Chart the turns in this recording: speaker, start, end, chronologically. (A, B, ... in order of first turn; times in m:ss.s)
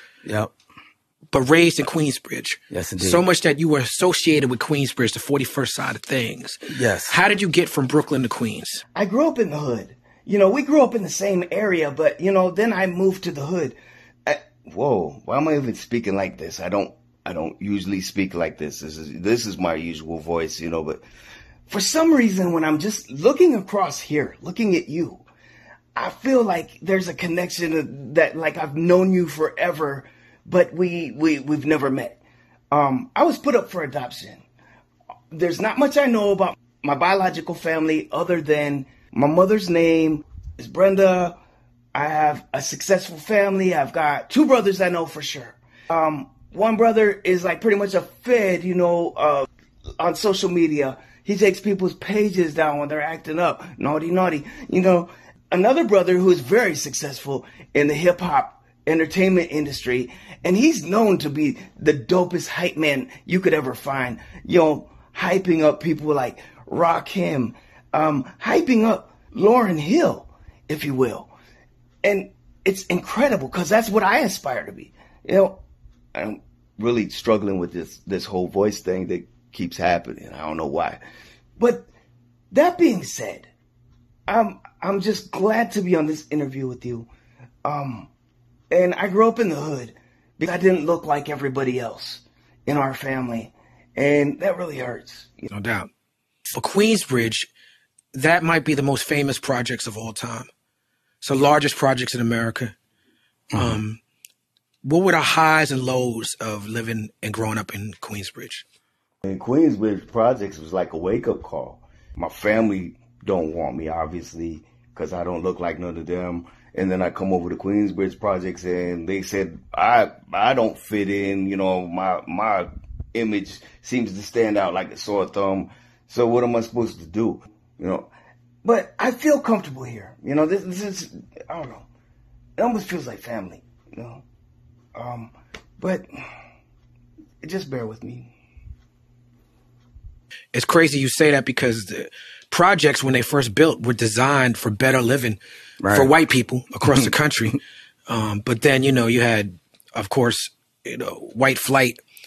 0:00.2-0:00.5 A
0:01.3-0:08.8 B
0:02.7-0:03.2 A
0:06.7-0:07.2 A
0:09.0-0:21.0 C
0:21.7-0:25.2 C
0:26.0-0:32.2 C
0:32.7-0:34.4 C
0:35.3-0:41.4 C
0:41.9-0:49.5 C
0:50.0-1:11.3 C
1:12.0-1:15.6 C
1:16.2-1:21.0 C
1:21.6-1:21.9 C
1:22.5-1:23.5 C
1:24.3-1:27.1 C
1:27.6-1:28.1 C
1:28.7-1:35.5 C
1:35.5-1:35.9 B
1:36.5-1:37.5 B
1:38.1-1:40.5 B
1:41.2-1:42.8 B
1:43.5-1:43.8 A
1:43.5-1:44.0 B
1:44.8-1:48.6 B
1:49.2-2:08.1 C
2:08.6-2:11.9 C
2:12.6-2:14.2 C
2:15.0-2:16.1 C
2:17.4-2:18.3 C
2:20.5-2:32.0 B
2:25.8-2:26.1 A